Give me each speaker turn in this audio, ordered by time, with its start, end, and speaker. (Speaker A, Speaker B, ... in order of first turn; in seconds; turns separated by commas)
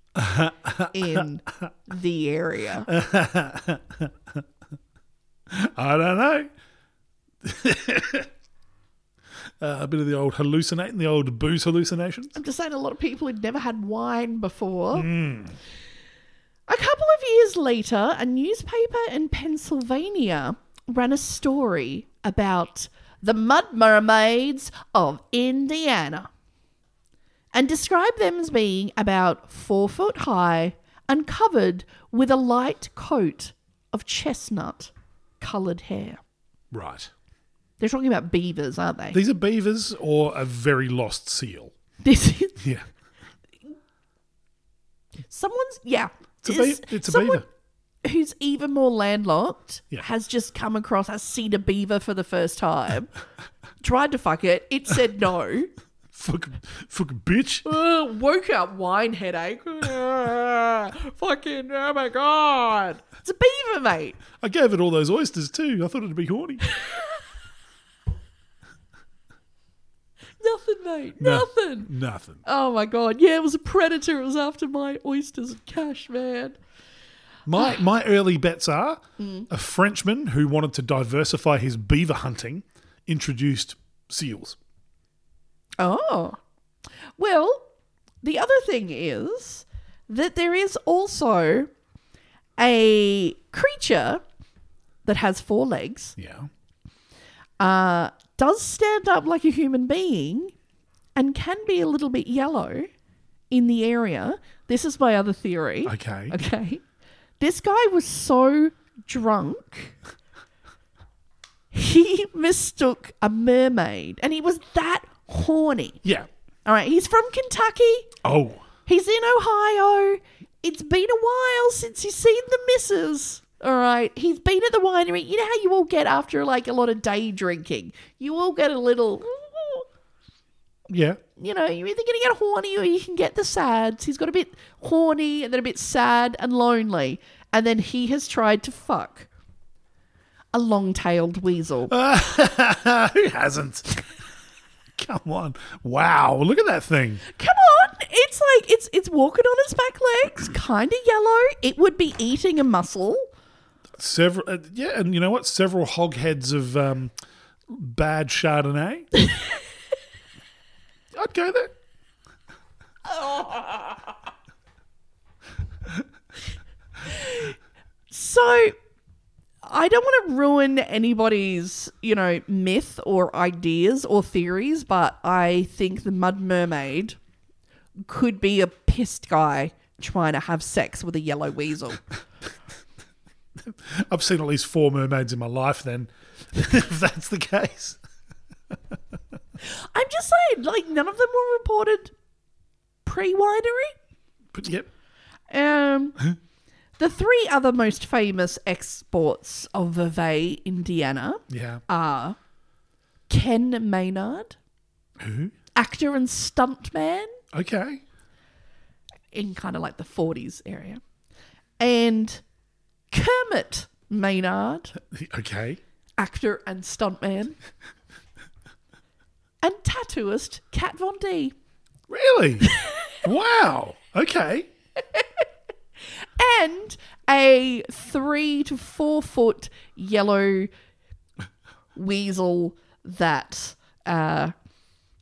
Speaker A: 0.1-1.2, Speaker B: 0.9-2.9, Speaker A: 2.9-4.4, Speaker A: 5.5-6.5, Speaker A: 7.4-8.3, Speaker A: 9.6-12.3, Speaker B: 12.3-15.1, Speaker A: 14.9-15.6, Speaker B: 16.7-26.3, Speaker B: 27.5-36.2, Speaker A: 36.7-37.1, Speaker B: 37.8-39.2, Speaker A: 39.1-41.7, Speaker B: 42.0-42.6, Speaker A: 42.6-42.9, Speaker B: 45.3-47.4, Speaker A: 46.4-47.5, Speaker B: 48.0-53.1, Speaker B: 53.8-55.7, Speaker A: 56.1-57.7, Speaker B: 57.6-64.2, Speaker A: 64.3-66.6, Speaker B: 66.7-67.0, Speaker B: 70.4-71.9, Speaker A: 71.2-72.4, Speaker B: 72.4-76.6, Speaker A: 77.5-84.6, Speaker B: 79.2-79.5, Speaker B: 85.8-86.4, Speaker B: 87.2-87.7, Speaker B: 88.2-91.7, Speaker B: 92.6-94.2, Speaker B: 95.0-96.2, Speaker A: 96.2-96.5, Speaker B: 97.6-100.5, Speaker B: 101.1-102.9, Speaker B: 103.5-106.8, Speaker A: 105.8-106.3, Speaker B: 107.4-109.9, Speaker B: 111.7-116.0, Speaker B: 116.7-118.1, Speaker A: 118.2-118.6, Speaker B: 118.9-129.9, Speaker A: 130.9-131.2, Speaker B: 131.4-139.3, Speaker B: 140.5-141.9, Speaker A: 141.9-143.9, Speaker A: 145.0-147.2, Speaker B: 147.3-153.3, Speaker A: 153.9-157.1, Speaker A: 157.7-159.1, Speaker A: 161.1-161.7, Speaker B: 163.1-164.0, Speaker B: 167.1-167.5, Speaker B: 168.1-168.7, Speaker B: 169.6-177.2, Speaker B: 178.1-182.0, Speaker A: 183.7-188.0, Speaker B: 189.6-192.1, Speaker B: 193.0-193.9, Speaker A: 194.5-194.9, Speaker B: 195.5-196.2, Speaker B: 197.0-202.4, Speaker A: 201.5-201.8, Speaker B: 203.3-204.6, Speaker A: 205.2-205.5, Speaker B: 205.8-207.4, Speaker A: 207.5-208.0, Speaker B: 209.3-211.0, Speaker B: 211.8-212.4, Speaker B: 213.1-214.9, Speaker A: 215.0-215.8, Speaker B: 216.2-217.6, Speaker B: 219.6-221.5, Speaker A: 222.1-222.7, Speaker A: 223.2-224.7, Speaker B: 225.1-225.4, Speaker B: 226.4-230.7, Speaker B: 231.9-234.5